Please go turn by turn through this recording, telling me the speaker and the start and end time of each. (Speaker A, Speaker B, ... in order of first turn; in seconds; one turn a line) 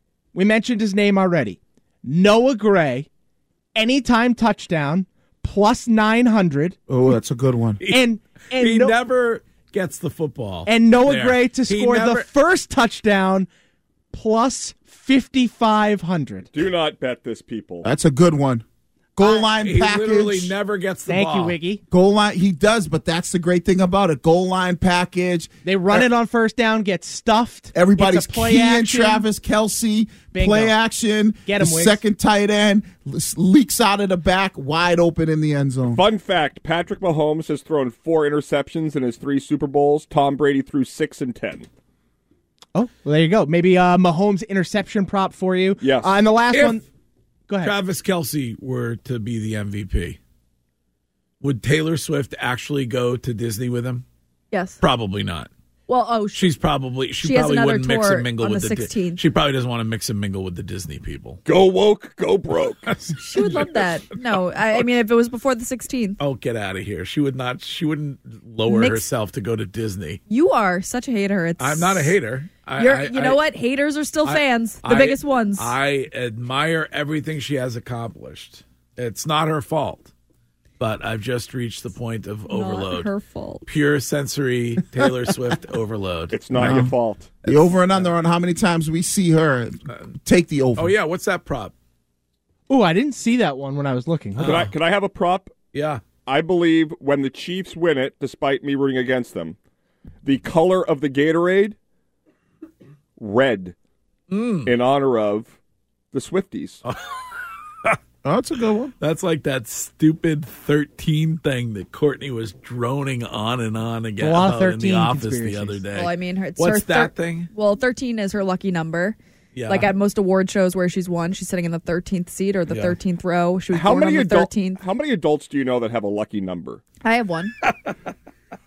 Speaker A: 0.3-3.1
Speaker A: 3.7-6.8
Speaker B: 6.9-7.8
Speaker C: 7.8-12.2
Speaker A: 7.9-9.0
Speaker A: 10.7-13.5
Speaker A: 14.1-16.5
Speaker D: 16.5-17.8
Speaker B: 17.8-18.6
Speaker B: 19.2-20.5
Speaker C: 19.2-21.6
Speaker A: 21.1-21.8
Speaker B: 21.9-26.0
Speaker A: 25.6-29.2
Speaker B: 27.7-36.0
Speaker A: 30.3-30.8
Speaker A: 31.4-32.0
Speaker D: 35.9-41.7
Speaker A: 42.7-46.8
Speaker D: 45.8-46.1
Speaker C: 46.5-46.8
Speaker A: 47.5-47.7
Speaker C: 47.6-50.2
Speaker C: 51.4-54.0
Speaker E: 54.5-54.8
Speaker C: 54.8-55.5
Speaker E: 55.9-56.5
Speaker C: 56.3-61.4
Speaker E: 57.2-59.2
Speaker D: 61.5-62.9
Speaker C: 62.9-63.7
Speaker E: 63.2-66.2
Speaker C: 66.2-70.2
Speaker E: 68.6-69.1
Speaker E: 70.3-72.2
Speaker C: 71.6-73.4
Speaker E: 72.8-75.7
Speaker C: 74.2-80.1
Speaker C: 80.8-83.1
Speaker E: 82.5-83.6
Speaker C: 83.7-86.9
Speaker D: 86.3-87.3
Speaker B: 86.6-86.9
Speaker B: 87.4-90.9
Speaker C: 87.4-88.0
Speaker C: 90.8-91.7
Speaker A: 92.7-94.6
Speaker C: 94.4-94.7
Speaker D: 94.4-95.5
Speaker C: 95.7-96.0
Speaker D: 96.2-99.5
Speaker D: 100.2-101.7
Speaker D: 103.2-103.7
Speaker C: 104.3-104.8
Speaker D: 104.7-105.5
Speaker D: 106.1-106.8
Speaker B: 108.2-108.9
Speaker C: 109.0-117.5
Speaker A: 114.2-115.9
Speaker E: 115.9-124.8
Speaker C: 119.5-119.9
Speaker C: 122.7-123.0
Speaker D: 123.7-126.8
Speaker E: 127.0-127.5